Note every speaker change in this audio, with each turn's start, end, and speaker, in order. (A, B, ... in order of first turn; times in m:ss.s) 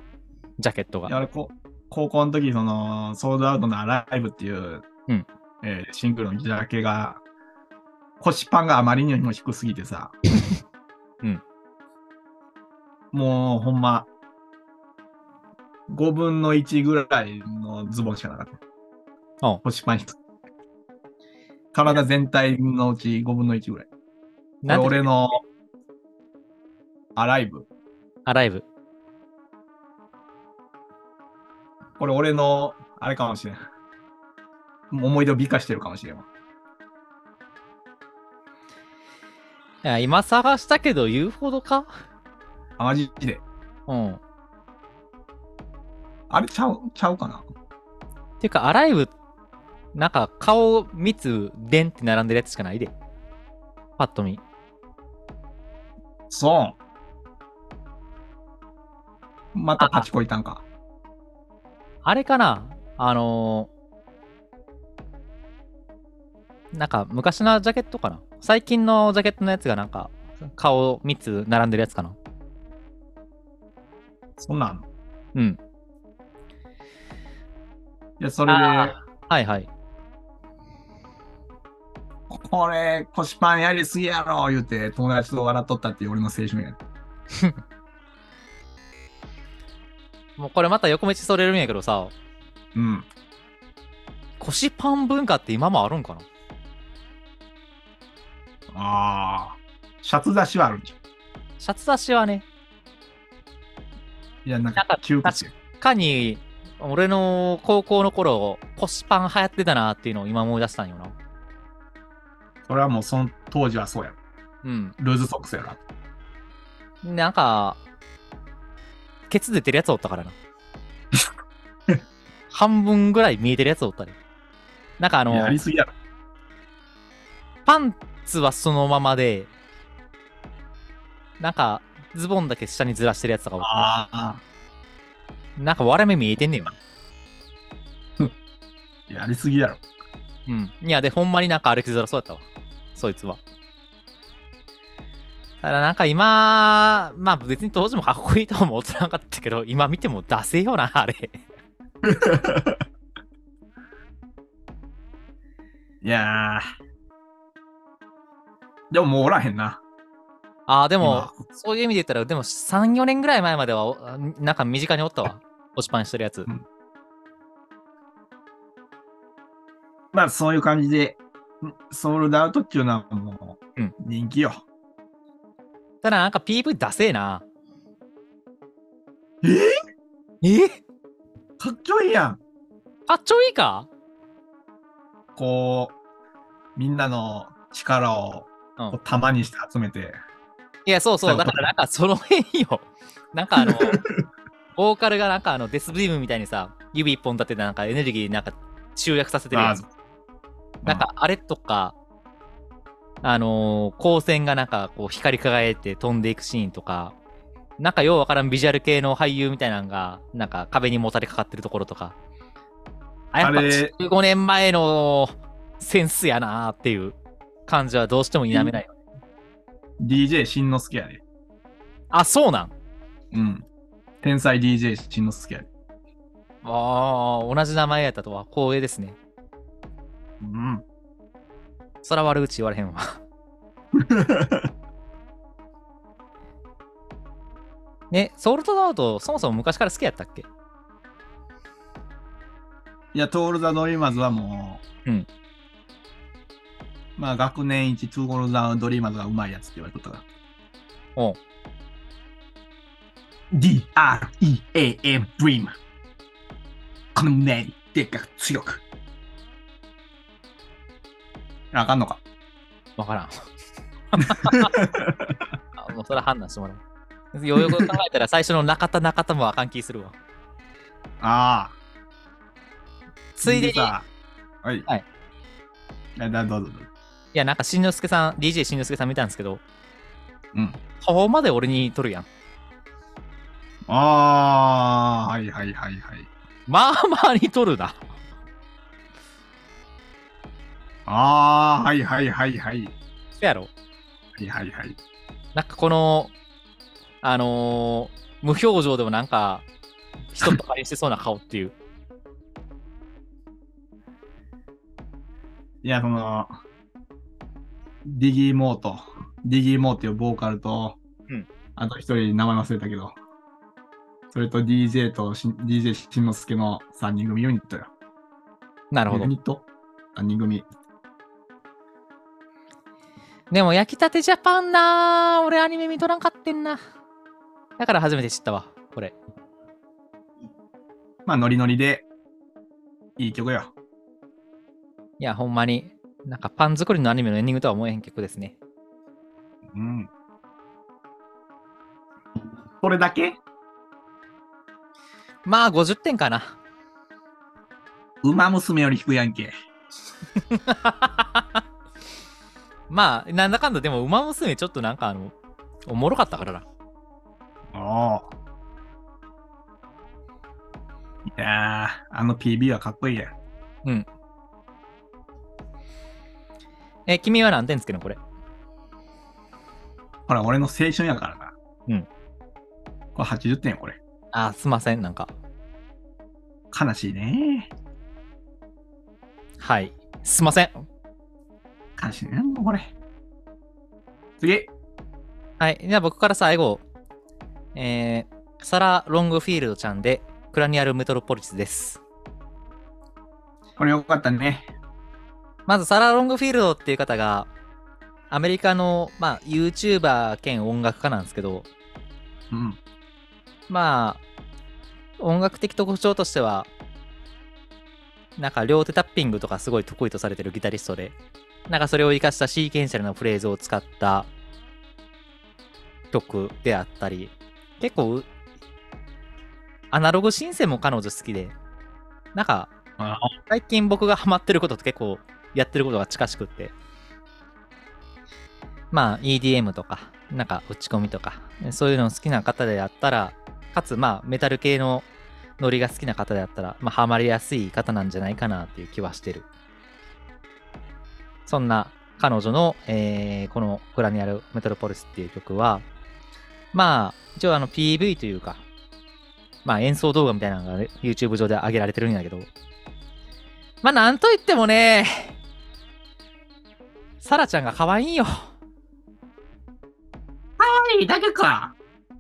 0:00.6-0:01.1 A
0:01.1-0:04.8 B
0:05.6-0:07.2 B
0:08.2-0:10.2 B
0:13.1-0:14.1 B
0:15.9-0:18.6 B
0:19.6-0:20.2 B
0:21.7-0:23.9 B
0:24.6-0:25.1 A
0:24.7-0:25.4 B
0:27.2-0:27.7 B
0:28.3-0:28.6 A
0:32.0-0:33.6 B
0:34.9-0:36.3 B
0:39.8-0:41.9 A
0:42.8-0:43.4 B
0:43.9-0:44.2 A
0:46.3-0:47.5 B
0:48.4-0:49.1 A
0:50.0-0:52.9 A
0:54.0-0:54.4 A
0:56.3-0:56.8 B
0:59.5-1:00.6 B
0:59.8-1:00.1 A
1:02.0-1:03.7 A
1:06.8-1:12.2 A
1:14.4-1:14.8 B
1:18.2-1:18.9 B
1:18.5-1:19.7 A
1:22.3-1:26.8 B
1:30.4-1:32.1 A
1:32.8-1:33.1 B
1:34.4-1:36.2 A
1:38.7-1:41.0 B
1:41.6-1:42.4 A
1:44.4-1:45.5 B
1:44.8-1:51.1 A
1:52.7-1:54.2 B
1:54.6-1:55.0 A
1:55.0-1:55.8 B
1:57.0-1:57.8 A
1:59.3-2:00.4 A
2:02.5-2:04.2 A
2:05.0-2:05.6 A
2:05.3-2:05.9 B
2:07.7-2:09.5 A
2:11.4-2:13.9 A
2:13.6-2:14.4 B
2:15.6-2:16.8 A
2:19.1-2:19.8 B
2:20.5-2:22.4 A
2:23.0-2:23.4 A
2:25.6-2:31.4 A
2:32.0-2:32.8 B
2:36.0-2:36.6 B
2:38.9-2:39.8 B
2:40.7-2:46.5 A
2:41.0-2:41.4 B
2:50.1-2:54.6 B
2:56.0-2:57.4 A
2:59.4-2:59.7 B
3:00.4-3:00.8 A
3:01.6-3:02.4 B
3:03.1-3:03.9 A
3:05.4-3:06.0 B
3:06.8-3:10.2 B
3:10.9-3:14.0 A
3:11.3-3:11.7 B
3:13.6-3:14.3 B
3:14.8-3:19.8 A
3:19.5-3:19.9 B
3:20.9-3:22.0 A
3:23.2-3:27.2 A
3:27.8-3:32.2 A
3:33.3-3:37.2 A
3:33.4-3:33.9 B
3:37.7-3:39.0 A
3:40.0-3:41.2 B
3:42.1-3:42.7 A
3:43.3-3:43.6 B
3:44.2-3:45.7 B
3:46.6-3:49.2 A
3:50.4-3:50.8 B
3:52.0-3:53.2 A
3:53.9-3:54.7 B
3:58.1-4:00.5 A
4:03.1-4:04.8 B
4:07.2-4:10.2 B
4:13.5-4:15.8 B
4:17.2-4:18.8 B
4:21.7-4:22.2 B
4:23.0-4:23.3 A
4:24.1-4:24.7 A
4:24.2-4:25.5 B
4:25.8-4:26.8 A
4:27.3-4:30.2 A
4:27.6-4:27.9 B
4:31.2-4:31.8 B
4:33.4-4:34.1 B
4:33.4-4:33.9 A
4:34.6-4:34.9 B
4:36.2-4:36.9 B
4:37.3-4:39.6 A
4:40.5-4:40.8 B
4:41.0-4:42.3 A
4:43.9-4:46.3 B
4:46.7-4:48.0 A
4:51.1-4:53.0 B
4:53.4-4:53.7 A
4:54.4-4:55.0 B
4:55.6-4:56.3 A
4:57.2-4:59.6 A
5:00.3-5:01.7 A
5:05.8-5:06.5 B
5:08.0-5:11.0 B
5:11.8-5:13.2 B
5:14.3-5:17.9 B
5:18.9-5:19.3 A
5:19.1-5:20.7 B
5:23.5-5:26.8 A
5:27.8-5:29.2 A
5:31.3-5:32.1 B
5:33.2-5:33.7 B
5:35.2-5:38.6 A
5:39.7-5:40.1 B
5:42.8-5:43.4 B
5:45.4-5:46.6 A
5:48.2-5:49.5 B
5:50.5-5:51.6 A
5:52.9-5:55.3 A
5:55.9-5:56.7 A
5:57.7-5:58.3 B
6:01.2-6:03.3 B
6:07.1-6:08.2 A
6:10.3-6:11.5 B
6:13.2-6:14.0 B
6:14.3-6:15.3 A
6:16.7-6:17.7 B
6:19.6-6:20.8 A
6:22.0-6:22.9 B
6:24.4-6:24.7 B
6:25.6-6:26.8 A
6:27.8-6:32.0 A
6:33.8-6:34.7 B
6:35.7-6:37.5 A
6:38.3-6:41.7 A
6:42.5-6:42.8 B
6:43.7-6:44.2 A
6:45.2-6:46.7 A
6:48.4-6:51.2 A
6:51.7-6:54.3 A
6:56.1-6:58.3 A
6:59.9-7:01.6 A
7:02.4-7:02.7 A
7:03.0-7:03.3 B
7:03.5-7:06.7 A
7:08.9-7:15.1 A
7:15.6-7:19.5 A
7:21.5-7:25.8 A
7:26.7-7:28.6 A
7:29.6-7:32.5 A
7:33.8-7:35.4 A
7:37.2-7:38.5 A
7:40.6-7:41.8 B